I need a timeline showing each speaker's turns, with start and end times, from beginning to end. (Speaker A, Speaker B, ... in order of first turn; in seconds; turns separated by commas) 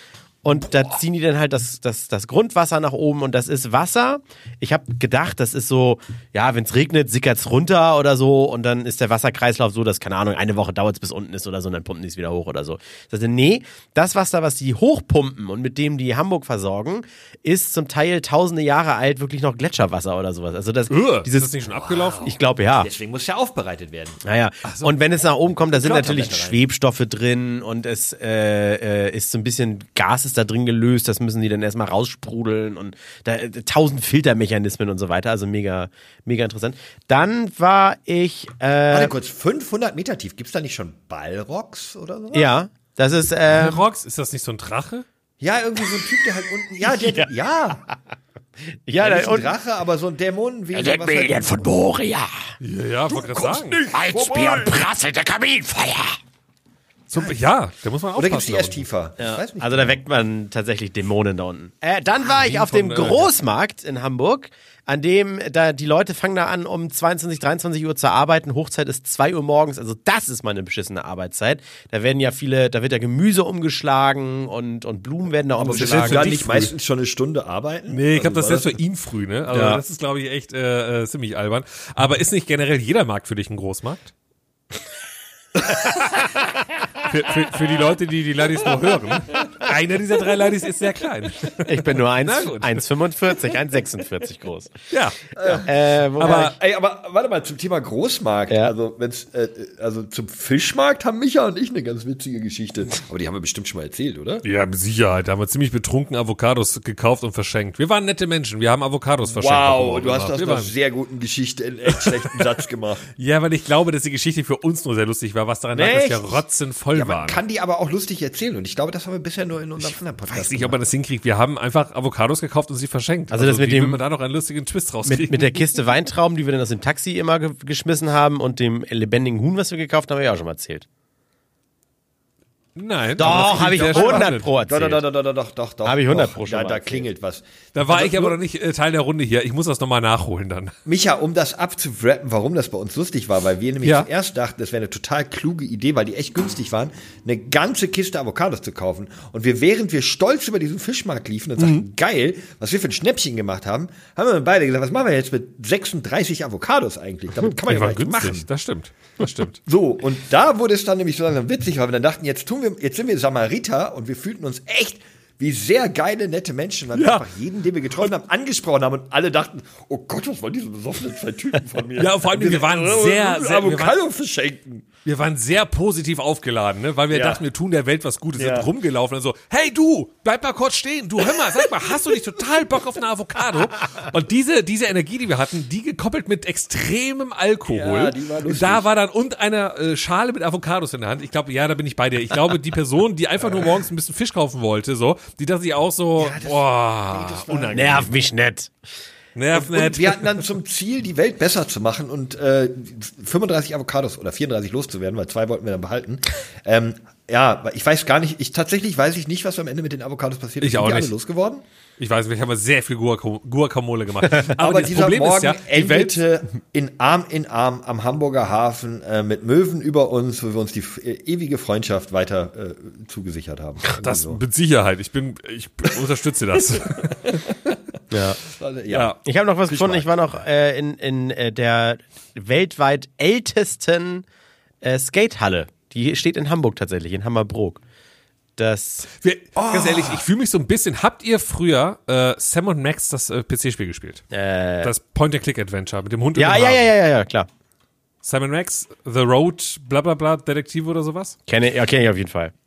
Speaker A: 0.4-21.5, Speaker B: 20.9-22.4, Speaker C: 21.8-24.2, Speaker A: 22.2-22.9, Speaker A: 24.2-39.1, Speaker B: 24.6-25.0, Speaker C: 25.7-26.6, Speaker C: 38.9-42.5, Speaker A: 42.3-43.9, Speaker B: 43.5-45.1, Speaker C: 45.4-47.8, Speaker A: 46.8-47.3, Speaker A: 48.9-49.5, Speaker C: 49.0-51.7, Speaker A: 50.7-52.4, Speaker B: 52.6-53.8, Speaker C: 53.1-54.8, Speaker A: 53.9-56.2, Speaker B: 57.1-58.9, Speaker C: 58.2-60.0, Speaker A: 59.2-76.3, Speaker B: 62.2-63.3, Speaker C: 75.6-78.8, Speaker B: 75.6-76.7, Speaker B: 77.9-84.1, Speaker A: 79.5-79.8, Speaker B: 85.7-86.2, Speaker B: 87.0-92.8, Speaker A: 91.6-94.7, Speaker B: 94.9-95.6, Speaker C: 95.4-104.4, Speaker A: 95.6-96.5, Speaker B: 96.2-96.5, Speaker B: 104.4-110.7, Speaker C: 109.3-113.1, Speaker B: 111.9-112.4, Speaker B: 113.2-117.4, Speaker C: 115.7-116.4, Speaker C: 116.9-120.8, Speaker B: 119.8-125.7, Speaker A: 123.3-124.0, Speaker A: 125.0-130.9, Speaker B: 132.8-134.5, Speaker A: 133.2-135.0, Speaker C: 133.2-138.4, Speaker A: 135.8-137.1, Speaker B: 137.7-140.7, Speaker C: 140.9-158.5, Speaker B: 151.6-151.8, Speaker B: 157.6-159.6, Speaker C: 159.7-174.9, Speaker B: 166.9-167.2, Speaker B: 172.0-174.0, Speaker B: 175.1-198.1, Speaker C: 177.1-177.4, Speaker C: 178.4-178.7, Speaker C: 187.7-188.9, Speaker C: 196.2-198.1, Speaker A: 197.7-198.7, Speaker B: 199.3-200.4, Speaker C: 199.5-211.6, Speaker B: 210.6-211.1, Speaker B: 212.0-216.2, Speaker C: 214.4-224.4, Speaker B: 224.0-227.6, Speaker A: 228.1-228.4, Speaker C: 228.5-229.2, Speaker B: 228.9-229.2, Speaker A: 229.2-234.2, Speaker C: 229.7-230.1, Speaker A: 234.8-237.8, Speaker A: 238.6-239.1, Speaker B: 239.2-244.3, Speaker C: 239.6-240.2, Speaker A: 244.3-244.9, Speaker B: 244.8-246.9, Speaker A: 246.4-247.5, Speaker B: 248.2-251.4, Speaker A: 251.5-252.5